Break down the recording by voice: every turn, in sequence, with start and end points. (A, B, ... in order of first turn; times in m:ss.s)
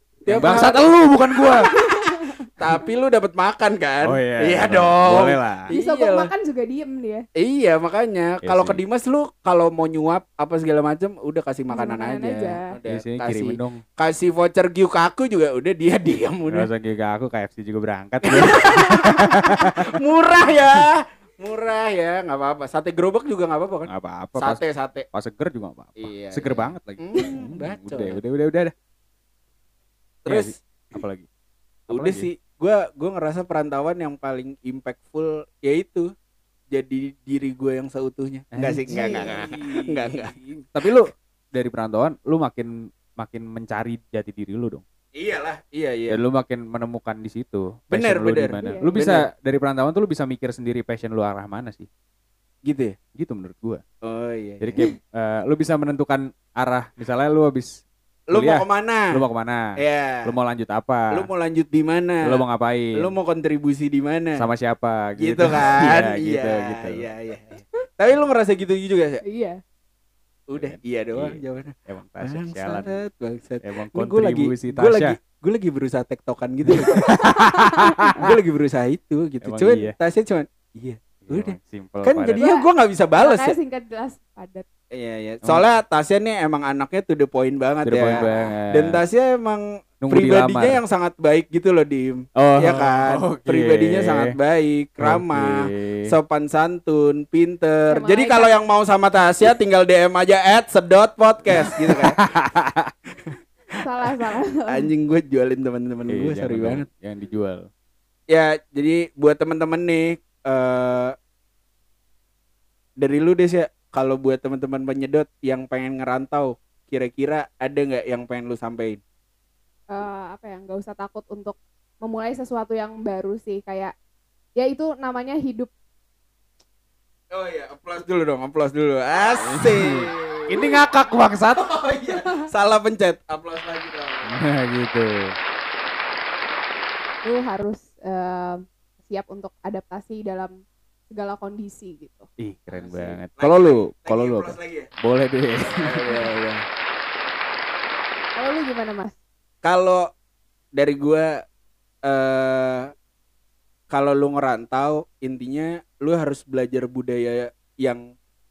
0:00.2-0:00.9 A
0:00.3-0:01.7 B
0:01.8-0:02.4 C
0:02.6-0:06.3 A
0:04.0-0:05.7 B
0:05.7-0:07.2 C
0:07.4-0:16.7 A
0:08.4-0:08.8 B
0:11.7-0:12.7 C
0:12.9-0:13.8 B
0:16.5-0:19.9 B
0:18.2-0:25.0 A
0:23.9-0:24.6 B
0:25.1-0:28.7 B
0:26.0-0:28.2 A
0:30.2-0:31.3 B
0:30.3-0:30.6 A
0:31.9-0:32.3 B
0:31.9-0:36.1 A
0:36.7-0:40.3 A
0:38.6-0:44.8 B
0:38.9-0:39.3 C
0:45.2-0:46.2 A
0:46.1-0:51.9 B
0:47.9-0:49.2 A
0:48.6-0:48.9 C
0:52.7-0:52.9 A
0:53.1-0:53.8 B
0:54.0-0:54.8 A
0:54.6-0:57.8 B
0:58.3-0:59.2 A
0:58.3-0:59.7 B
0:59.8-1:00.3 A
1:00.2-1:01.3 B
1:01.1-1:02.4 A
1:02.2-1:03.1 B
1:03.0-1:04.4 A
1:04.4-1:07.1 B
1:05.2-1:09.2 A
1:09.2-1:09.6 C
1:10.5-1:17.2 A
1:10.5-1:13.0 B
1:13.6-1:15.2 B
1:16.7-1:18.3 B
1:17.1-1:18.2 C
1:18.2-1:23.5 A
1:19.4-1:19.9 B
1:21.2-1:22.4 B
1:22.4-1:22.6 C
1:23.2-1:24.6 C
1:25.0-1:42.2 A
1:27.8-1:29.0 B
1:28.1-1:28.5 C
1:30.0-1:30.8 B
1:32.4-1:34.3 B
1:35.0-1:36.1 B
1:37.9-1:38.5 C
1:41.7-1:42.9 B
1:43.8-1:44.9 C
1:44.7-1:46.8 A
1:46.1-1:47.6 B
1:48.3-1:51.1 A
1:53.0-1:59.0 A
1:59.9-2:03.9 C
2:04.6-2:05.7 C
2:07.3-2:10.8 A
2:09.4-2:11.7 B
2:11.6-2:14.3 A
2:12.1-2:12.4 C
2:14.3-2:15.4 B
2:17.2-2:20.5 C
2:21.1-2:22.3 C
2:22.4-2:26.3 B
2:22.7-2:24.9 A
2:25.6-2:26.6 A
2:28.4-2:29.2 C
2:29.6-2:30.0 A
2:30.8-2:31.4 A
2:32.0-2:32.9 A
2:33.9-2:38.0 A